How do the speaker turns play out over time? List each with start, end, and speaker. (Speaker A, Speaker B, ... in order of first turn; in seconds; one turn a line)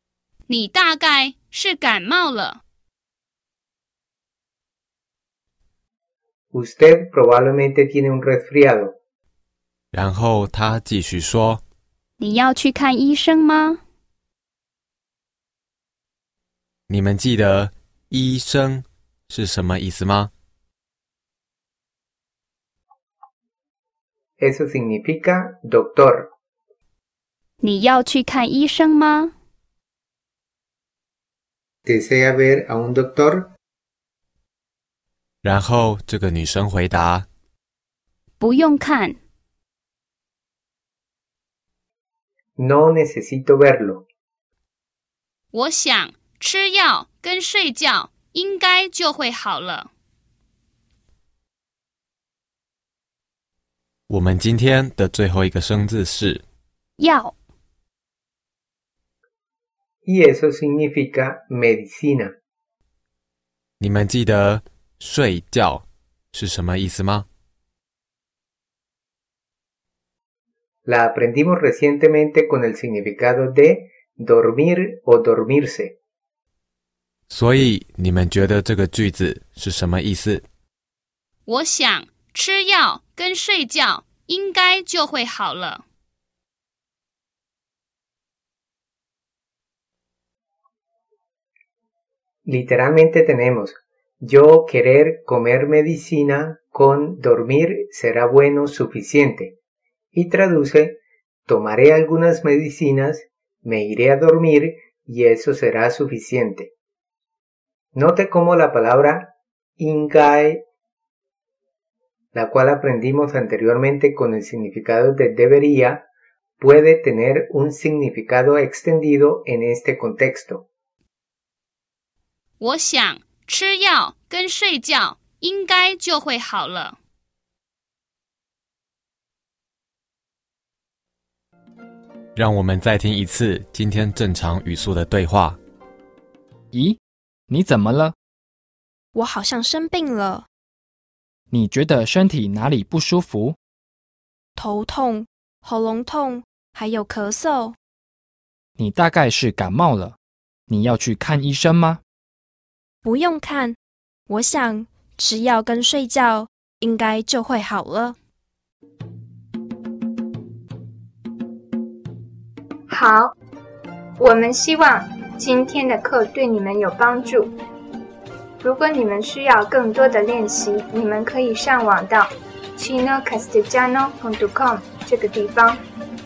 Speaker A: 0.5-2.6
Speaker B: 6.5-8.9
Speaker C: 9.9-11.6
Speaker A: 12.2-13.8
Speaker C: 16.9-20.3
Speaker B: 24.4-26.3
Speaker A: 27.6-29.3
Speaker B: 31.9-33.5
Speaker C: 35.4-37.3
Speaker A: 38.4-39.2
Speaker B: 42.6-44.1
Speaker A: 45.5-49.9
Speaker C: 54.1-56.4
Speaker A: 57.0-57.4
Speaker B: 60.0-62.3
Speaker C: 63.8-67.3
Speaker B: 70.9-76.0
Speaker C: 77.3-80.5
Speaker A: 81.5-85.8
Speaker B: 92.5-99.6
Speaker B: 100.1-106.7
Speaker B: 107.9-110.6
Speaker B: 112.3-116.1
Speaker B: 116.6-120.7
Speaker A: 122.6-127.0
Speaker C: 132.4-135.6
Speaker D: 136.7-138.2
Speaker E: 139.2-140.5
Speaker D: 141.5-143.6
Speaker E: 144.6-147.8
Speaker D: 148.8-150.2
Speaker D: 150.7-152.0
Speaker E: 153.1-153.8
Speaker E: 154.3-158.2
Speaker F: 162.9-163.3
Speaker F: 164.2-167.5
Speaker F: 168.6-175.8